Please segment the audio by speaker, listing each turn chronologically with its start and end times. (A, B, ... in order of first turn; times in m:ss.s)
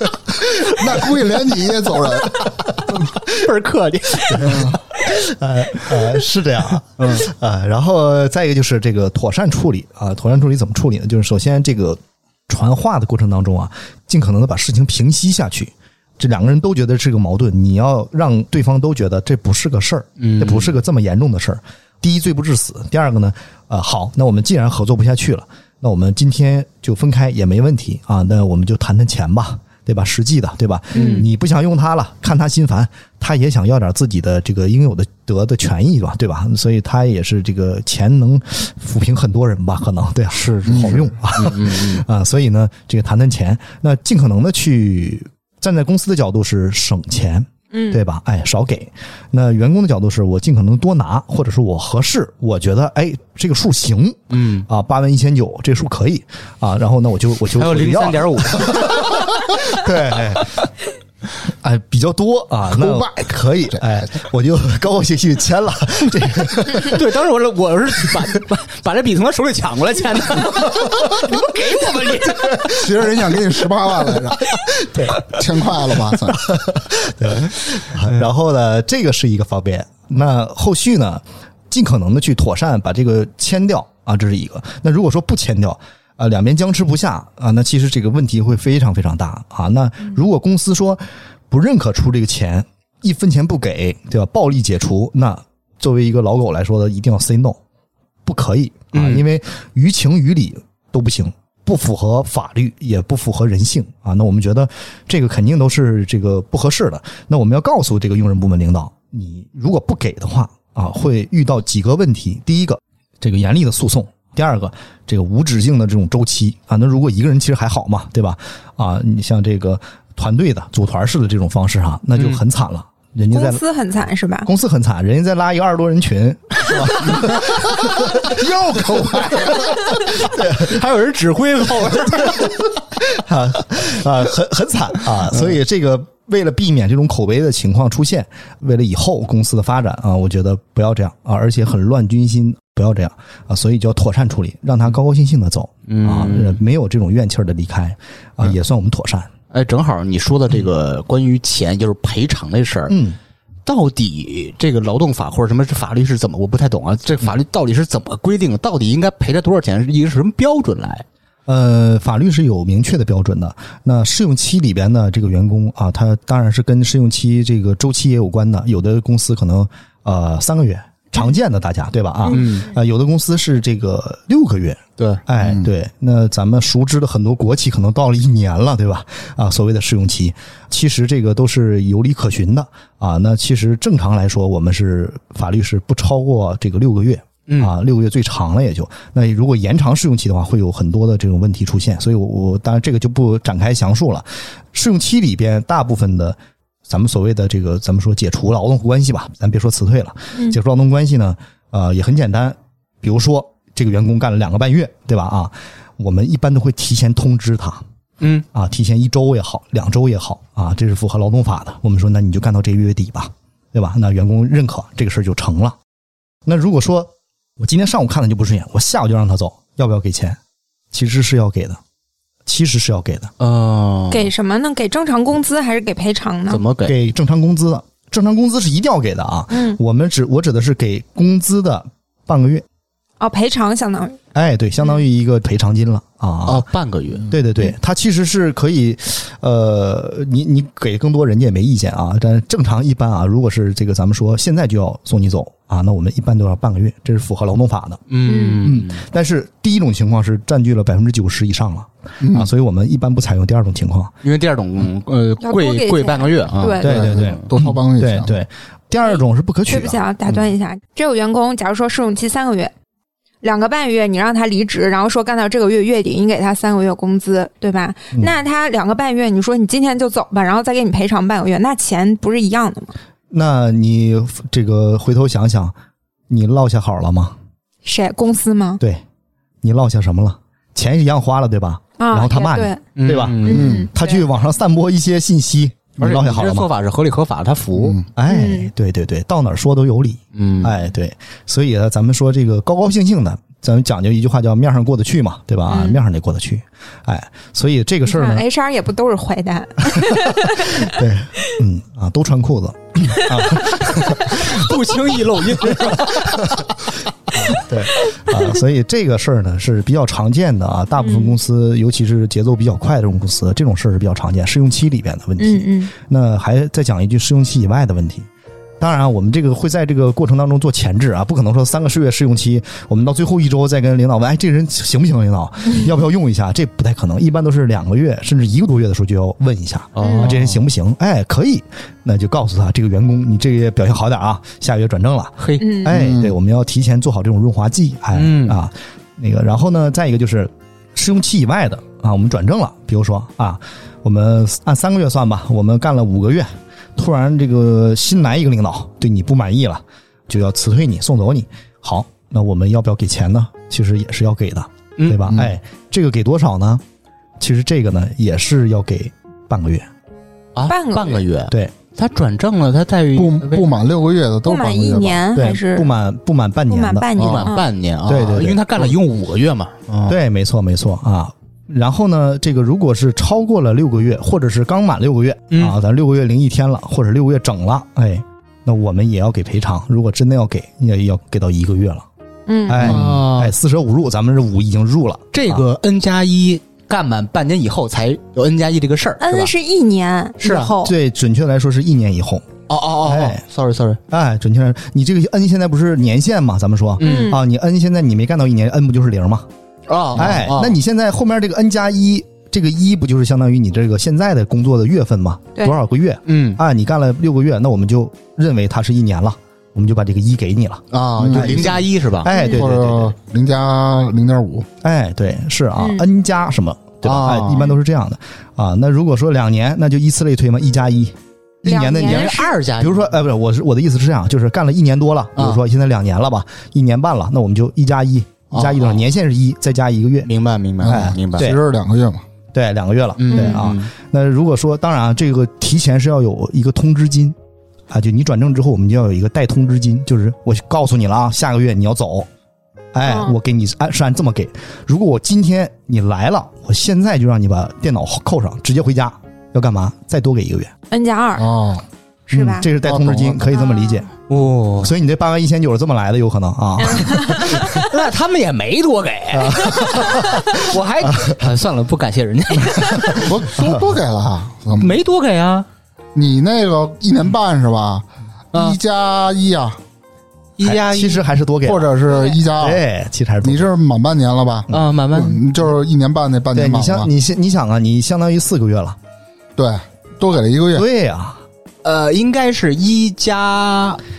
0:00.5-0:03.0 A
0:02.9-0:04.8 B
0:04.3-1:00.7 C
0:04.4-0:04.8 A
0:07.0-0:07.3 B
0:20.2-0:20.7 B
0:30.9-0:31.2 B
0:31.0-0:31.2 D
0:40.3-0:42.0 B
0:40.7-0:41.0 A
0:47.7-0:48.0 D
0:54.3-0:54.7 B
0:57.5-0:59.2 B
1:01.5-1:07.0 C
1:02.7-1:04.1 A
1:06.8-1:13.1 B
1:12.3-1:12.6 C
1:12.6-1:16.6 A
1:14.7-1:15.2 C
1:16.3-1:37.6 C
1:38.2-2:03.6 C
1:38.9-1:39.2 B
2:03.3-2:04.5 D
2:04.4-2:09.0 C
2:08.4-2:12.5 B
2:09.0-2:09.6 A
2:09.7-2:10.8 C
2:12.2-2:29.3 C
2:25.9-2:26.6 B
2:29.5-2:33.0 B
2:32.9-2:33.2 C
2:33.6-2:41.0 B
2:41.5-3:27.8 C
2:52.3-2:52.7 B
2:55.4-2:55.6 A
3:07.5-3:07.7 B
3:28.2-3:28.4 B
3:28.5-3:35.8 C
3:36.4-3:40.4 C
3:40.9-3:41.8 C
3:42.4-3:43.3 C
3:43.4-3:44.3 B
3:44.1-3:46.6 D
3:46.5-3:47.0 B
3:46.8-3:52.6 C
3:49.5-3:49.8 D
3:53.2-3:54.2 D
3:54.3-3:56.6 C
3:56.4-3:57.3 B
3:57.3-4:08.0 C
4:08.1-4:09.0 B
4:08.2-4:08.7 D
4:08.6-4:14.1 C
4:12.2-4:12.5 A
4:14.2-4:17.4 B
4:15.4-4:17.1 D
4:16.8-4:20.0 C
4:16.8-4:18.3 A
4:19.7-4:22.7 D
4:23.4-4:32.9 D
4:33.3-4:35.7 C
4:36.3-4:37.3 C
4:37.8-4:38.8 D
4:39.6-4:46.7 C
4:42.0-4:42.8 D
4:43.0-4:43.8 B
4:43.4-4:44.2 D
4:43.5-4:43.9 A
4:46.0-4:48.0 B
4:47.8-4:48.1 A
4:48.1-4:58.4 C
4:48.3-4:48.7 D
4:50.3-4:50.7 B
4:55.7-4:56.0 D
4:58.0-5:01.0 D
5:00.6-5:04.8 C
5:03.2-5:03.5 D
5:04.1-5:06.8 B
5:05.6-5:06.7 C
5:07.4-5:18.3 C
5:11.0-5:11.3 D
5:15.4-5:15.9 D
5:18.8-5:56.8 C
5:29.9-5:30.6 B
5:30.0-5:30.3 D
5:35.4-5:35.7 B
5:35.6-5:35.9 D
5:35.8-5:36.3 A
5:38.1-5:38.6 B
5:55.0-5:55.4 B
5:57.4-5:59.9 C
6:00.5-6:03.8 B
6:00.7-6:01.2 D
6:01.5-6:01.8 C
6:03.1-6:05.2 A
6:04.4-6:05.9 D
6:05.3-6:07.1 C
6:06.7-6:07.7 D
6:07.2-6:07.5 A
6:07.2-6:10.2 B
6:08.0-6:08.8 C
6:10.1-6:22.0 C
6:15.5-6:15.8 B
6:22.5-6:23.0 D
6:22.6-6:25.6 C
6:22.8-6:23.5 B
6:25.3-6:29.5 B
6:29.2-6:30.9 D
6:30.4-6:30.7 B
6:30.8-6:32.5 C
6:32.7-6:34.0 B
6:33.0-6:33.4 C
6:34.1-6:39.5 C
6:37.0-6:37.4 B
6:37.0-6:37.4 D
6:39.9-6:40.8 B
6:40.1-6:53.1 C
6:46.3-6:46.6 B
6:50.9-6:52.3 B
6:51.2-6:51.8 A
6:52.3-6:52.6 D
6:52.5-6:54.7 A
6:54.8-7:10.3 C
6:55.8-6:56.0 D
6:57.0-6:57.7 B
7:01.6-7:02.6 D
7:02.0-7:03.1 B
7:05.4-7:05.6 B
7:08.5-7:09.0 B
7:10.2-7:11.5 B
7:10.8-7:11.6 C
7:10.8-7:12.2 A
7:12.5-7:17.4 C
7:13.2-7:13.9 B
7:13.3-7:13.7 D
7:17.9-7:22.3 C
7:22.9-7:30.7 C
7:23.0-7:23.3 D
7:30.9-7:31.7 D
7:31.4-7:31.8 A
7:32.3-7:32.7 D
7:32.3-7:34.1 C
7:32.8-7:33.4 A
7:33.5-7:34.0 D
7:34.3-7:34.9 B
7:34.8-7:37.9 C
7:36.8-7:37.8 D
7:37.7-7:43.5 B
7:39.3-7:41.5 C
7:42.9-7:43.2 C
7:43.2-7:44.9 A
7:44.8-7:45.7 B
7:46.1-7:49.8 A
7:48.5-7:48.8 B
7:50.6-7:51.2 B
7:50.6-7:51.9 C
7:51.6-7:52.8 A
7:52.5-7:53.7 C
7:53.4-7:57.1 A
7:54.7-7:55.4 B
7:56.5-7:59.0 C
7:59.6-8:00.8 A
8:00.7-8:01.4 C
8:01.8-8:04.0 B